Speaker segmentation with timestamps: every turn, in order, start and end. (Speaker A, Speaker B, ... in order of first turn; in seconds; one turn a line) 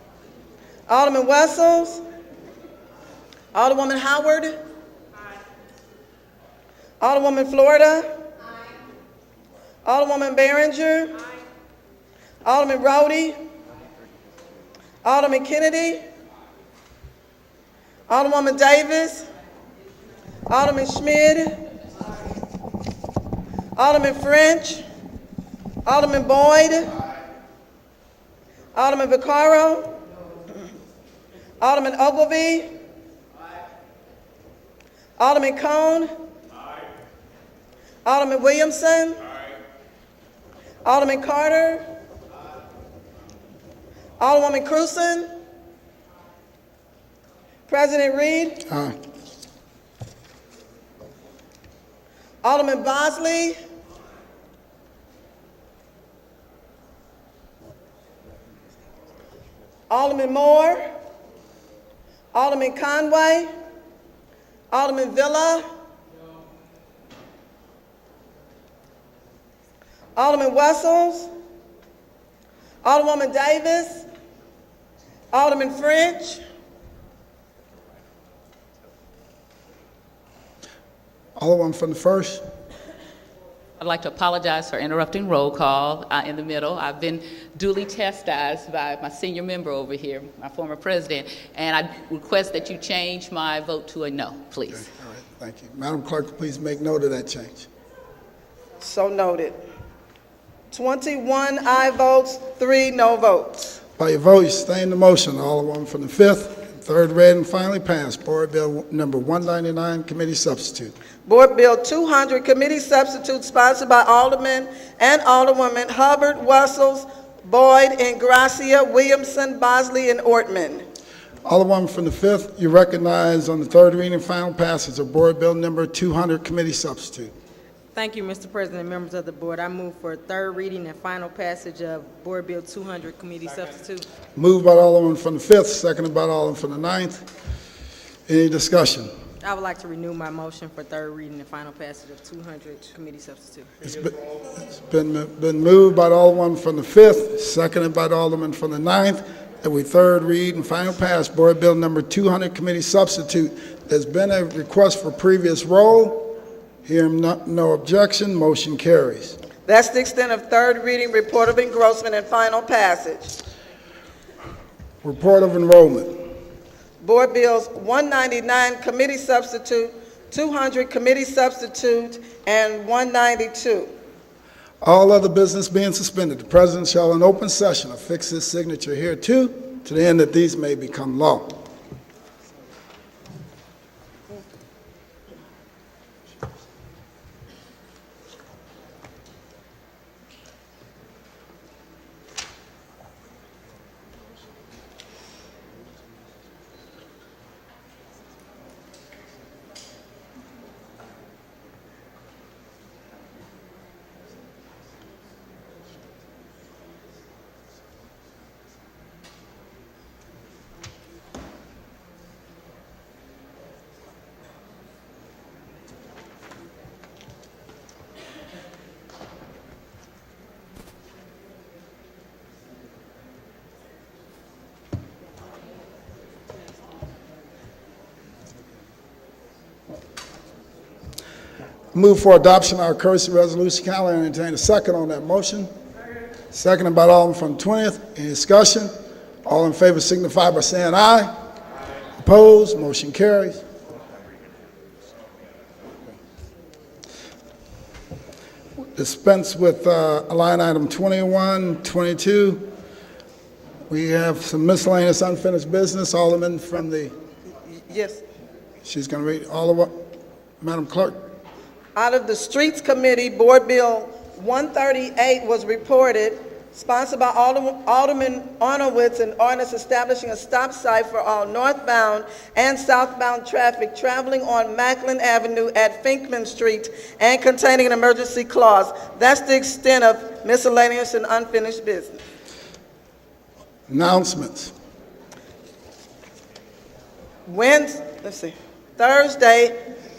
Speaker A: 0.9-2.0
Speaker A: 3.5-4.5
Speaker A: 7.0-8.1
Speaker A: 9.8-11.2
Speaker A: 12.4-13.4
Speaker A: 15.0-16.0
Speaker A: 18.1-19.3
Speaker A: 20.5-21.6
Speaker A: 23.8-24.8
Speaker A: 25.9-26.9
Speaker A: 28.7-29.9
Speaker A: 31.6-32.7
Speaker A: 35.2-36.1
Speaker A: 38.0-39.2
Speaker A: 40.8-41.8
Speaker A: 44.2-45.3
Speaker A: 47.7-48.6
Speaker B: 48.7-48.9
Speaker A: 52.4-53.6
Speaker A: 59.9-60.8
Speaker A: 62.3-63.5
Speaker A: 64.7-65.7
Speaker A: 70.2-71.3
Speaker A: 72.8-74.0
Speaker A: 75.3-76.4
Speaker B: 81.4-82.4
Speaker C: 83.8-94.9
Speaker B: 94.8-97.7
Speaker A: 98.8-99.6
Speaker A: 100.7-103.8
Speaker B: 104.0-110.9
Speaker A: 111.3-120.8
Speaker B: 121.5-127.3
Speaker D: 127.9-134.1
Speaker B: 134.4-137.2
Speaker B: 138.3-139.1
Speaker D: 139.4-143.8
Speaker B: 143.8-156.3
Speaker B: 156.8-159.4
Speaker A: 159.7-163.3
Speaker B: 165.0-166.2
Speaker A: 167.0-173.9
Speaker B: 174.8-181.6
Speaker B: 231.9-235.7
Speaker B: 236.5-238.9
Speaker B: 239.4-241.3
Speaker B: 242.2-243.6
Speaker B: 249.0-252.7
Speaker B: 253.9-257.1
Speaker A: 257.9-258.2
Speaker B: 258.8-259.9
Speaker B: 260.6-261.2
Speaker A: 261.9-282.2
Speaker B: 283.9-284.7
Speaker A: 287.5-289.7